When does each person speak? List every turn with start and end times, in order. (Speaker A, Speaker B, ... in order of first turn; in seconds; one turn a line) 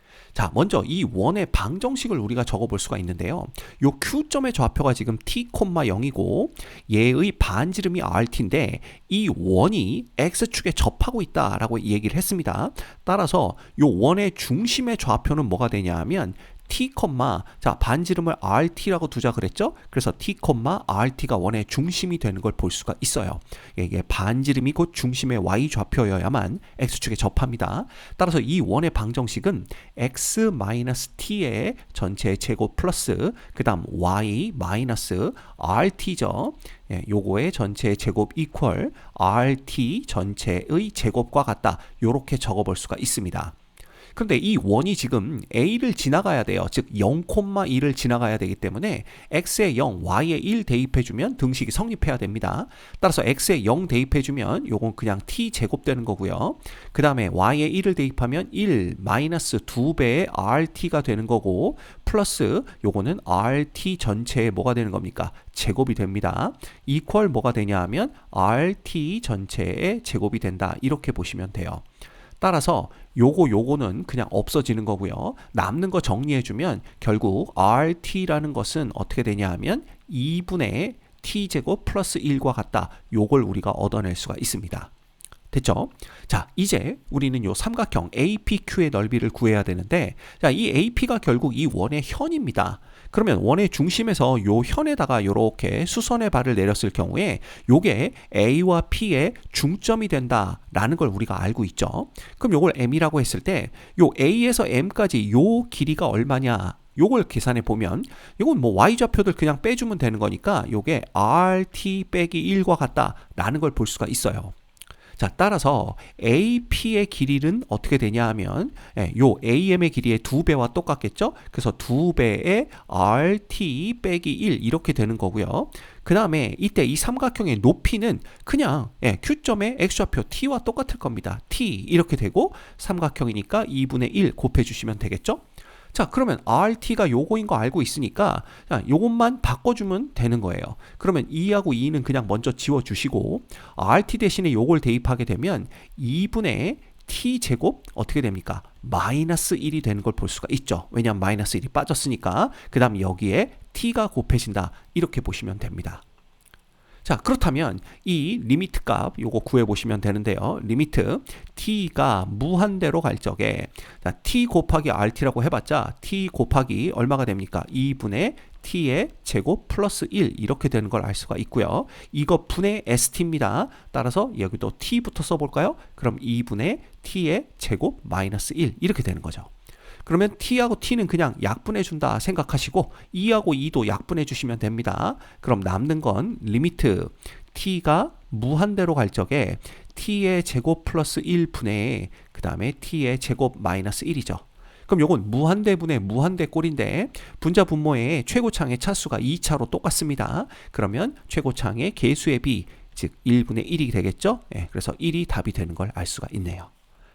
Speaker A: 0.3-43.5
Speaker A: 44.1-71.8
Speaker A: 72.4-84.9
Speaker A: 85.5-114.5
Speaker A: 115.2-156.0
Speaker A: 157.0-179.5
Speaker A: 180.0-206.7